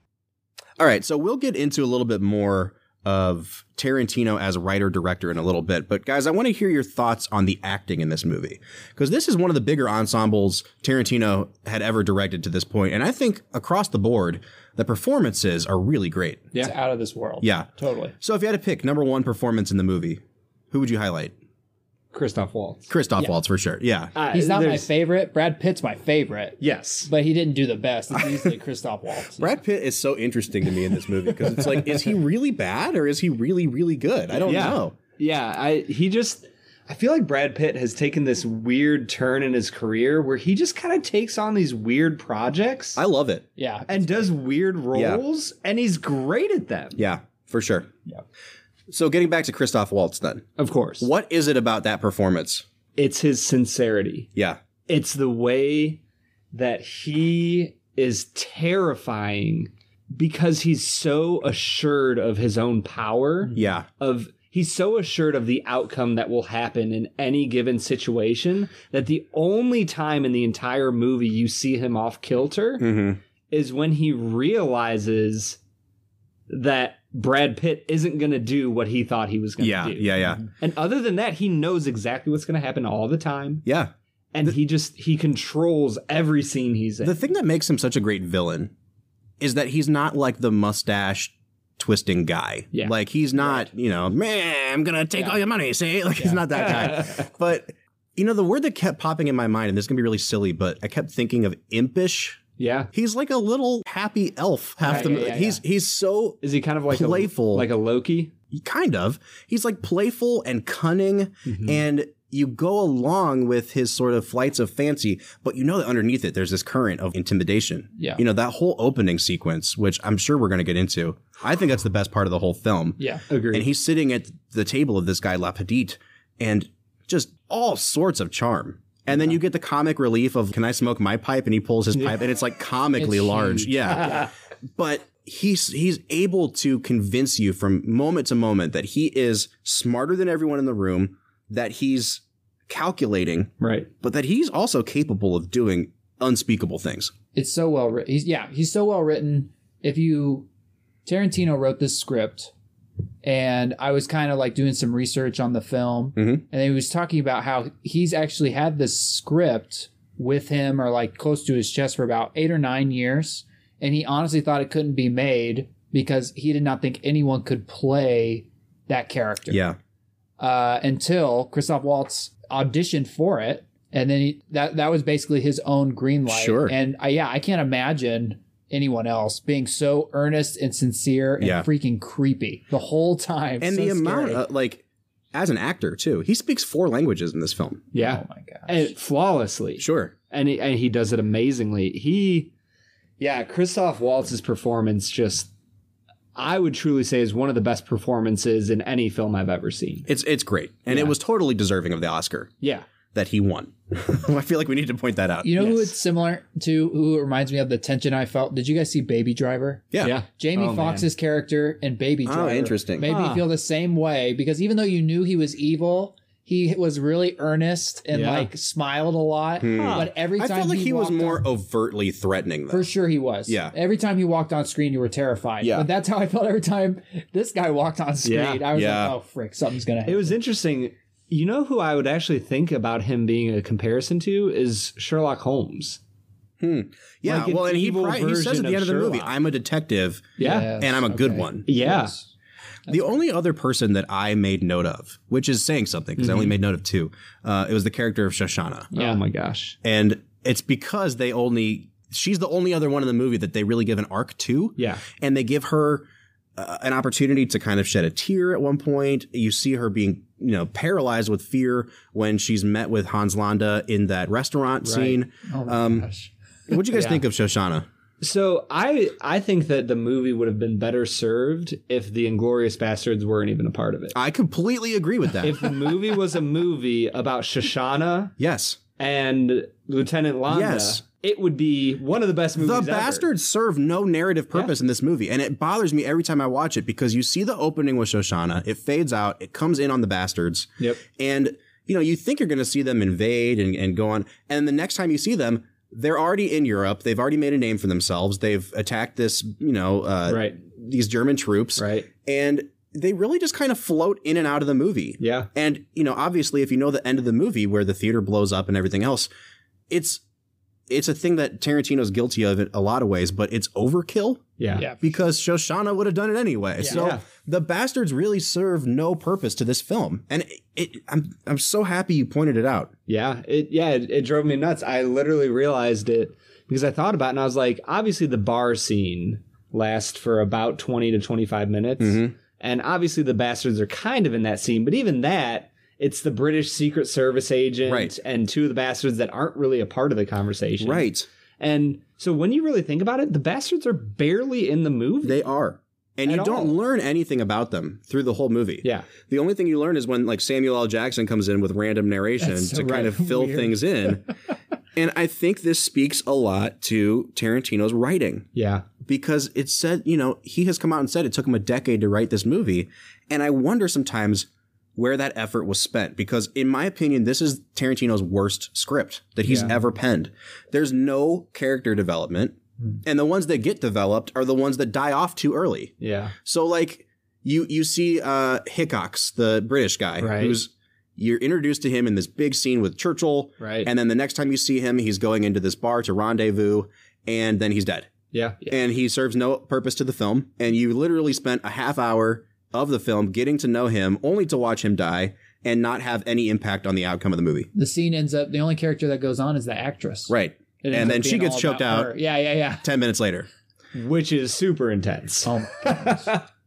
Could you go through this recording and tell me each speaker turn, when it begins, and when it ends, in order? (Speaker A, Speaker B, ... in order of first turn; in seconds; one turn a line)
Speaker A: 0.8-16.5
Speaker B: 16.6-18.1
Speaker A: 17.4-17.7
Speaker A: 18.2-21.3
Speaker C: 22.1-22.9
Speaker A: 22.9-24.1
Speaker C: 24.1-24.9
Speaker B: 24.3-29.5
Speaker C: 26.6-27.1
Speaker A: 28.2-28.5
Speaker A: 29.4-35.0
Speaker C: 31.2-32.1
Speaker C: 34.4-43.0
Speaker A: 43.0-43.4
Speaker B: 43.6-44.3
Speaker C: 43.9-47.0
Speaker A: 44.9-45.2
Speaker A: 47.0-47.9
Speaker A: 48.9-50.5
Speaker C: 50.6-51.1
Speaker A: 51.0-52.6
Speaker C: 53.0-54.3
Speaker A: 54.3-54.6
Speaker C: 54.9-56.0
Speaker C: 56.5-72.9
Speaker A: 63.5-63.9
Speaker A: 72.8-73.2
Speaker C: 73.5-75.6
Speaker C: 76.5-83.6
Speaker A: 79.6-80.4
Speaker A: 83.6-83.9
Speaker C: 84.3-87.2
Speaker A: 87.0-88.7
Speaker A: 89.4-102.4
Speaker C: 92.7-93.7
Speaker B: 96.2-96.4
Speaker C: 96.6-97.3
Speaker C: 102.6-102.9
Speaker A: 102.9-107.7
Speaker B: 104.8-105.6
Speaker C: 104.9-105.2
Speaker C: 106.4-108.3
Speaker A: 108.5-147.1
Speaker C: 111.5-111.8
Speaker B: 118.0-118.2
Speaker C: 123.3-123.7
Speaker B: 133.0-134.3
Speaker C: 143.6-143.9
Speaker B: 147.3-150.5
Speaker B: 151.0-152.5
Speaker B: 153.2-169.6
Speaker A: 156.2-156.4
Speaker A: 169.5-169.8
Speaker B: 170.4-184.4
Speaker A: 176.3-176.7
Speaker A: 181.4-181.7
Speaker A: 183.6-187.8
Speaker C: 187.9-192.5
Speaker B: 188.0-188.9
Speaker A: 189.8-190.1
Speaker C: 193.2-195.5
Speaker C: 196.3-200.1
Speaker A: 200.1-202.5
Speaker C: 202.6-202.8
Speaker A: 203.1-205.7
Speaker B: 205.4-221.4
Speaker C: 205.6-205.8
Speaker A: 209.9-210.2
Speaker C: 210.0-211.1
Speaker A: 212.2-213.1
Speaker C: 213.0-213.5
Speaker C: 218.1-218.5
Speaker A: 219.6-222.9
Speaker C: 219.6-220.1
Speaker B: 222.7-230.3
Speaker A: 223.5-223.7
Speaker A: 225.6-225.9
Speaker C: 228.2-228.6
Speaker A: 228.7-229.1
Speaker C: 230.1-236.0
Speaker A: 236.6-241.7
Speaker C: 237.2-239.3
Speaker C: 240.4-240.7
Speaker B: 240.4-242.3
Speaker C: 241.7-242.1
Speaker A: 242.9-248.9
Speaker C: 246.2-246.5
Speaker C: 248.9-249.8
Speaker B: 248.9-249.2
Speaker A: 249.8-256.0
Speaker C: 254.8-255.0
Speaker A: 256.6-266.1
Speaker C: 264.8-265.2
Speaker B: 265.5-266.3
Speaker A: 266.7-267.9
Speaker C: 268.2-274.1
Speaker A: 274.1-275.7
Speaker C: 275.4-278.3
Speaker A: 278.4-278.8
Speaker C: 279.0-283.3
Speaker A: 280.5-281.0
Speaker A: 282.6-309.3
Speaker C: 300.3-300.6
Speaker C: 301.8-302.1
Speaker C: 305.2-305.5
Speaker A: 309.9-310.2
Speaker A: 310.9-322.9
Speaker C: 314.6-314.9
Speaker B: 314.8-315.1
Speaker B: 316.8-317.0
Speaker C: 316.9-317.2
Speaker C: 323.1-345.4
Speaker A: 332.0-332.3
Speaker A: 337.9-338.1
Speaker A: 340.8-341.3
Speaker A: 345.2-354.3
Speaker C: 346.2-346.7
Speaker C: 348.8-349.1
Speaker B: 352.4-354.1
Speaker A: 354.9-358.5
Speaker C: 358.5-358.9
Speaker A: 359.0-375.9
Speaker C: 369.4-369.8
Speaker C: 376.0-376.3
Speaker A: 376.4-388.1
Speaker C: 380.2-380.6
Speaker C: 383.6-383.9
Speaker C: 388.3-388.7
Speaker A: 388.7-397.7
Speaker B: 397.7-402.8
Speaker A: 400.3-402.1
Speaker A: 402.8-403.5
Speaker C: 403.9-406.4
Speaker B: 405.4-406.3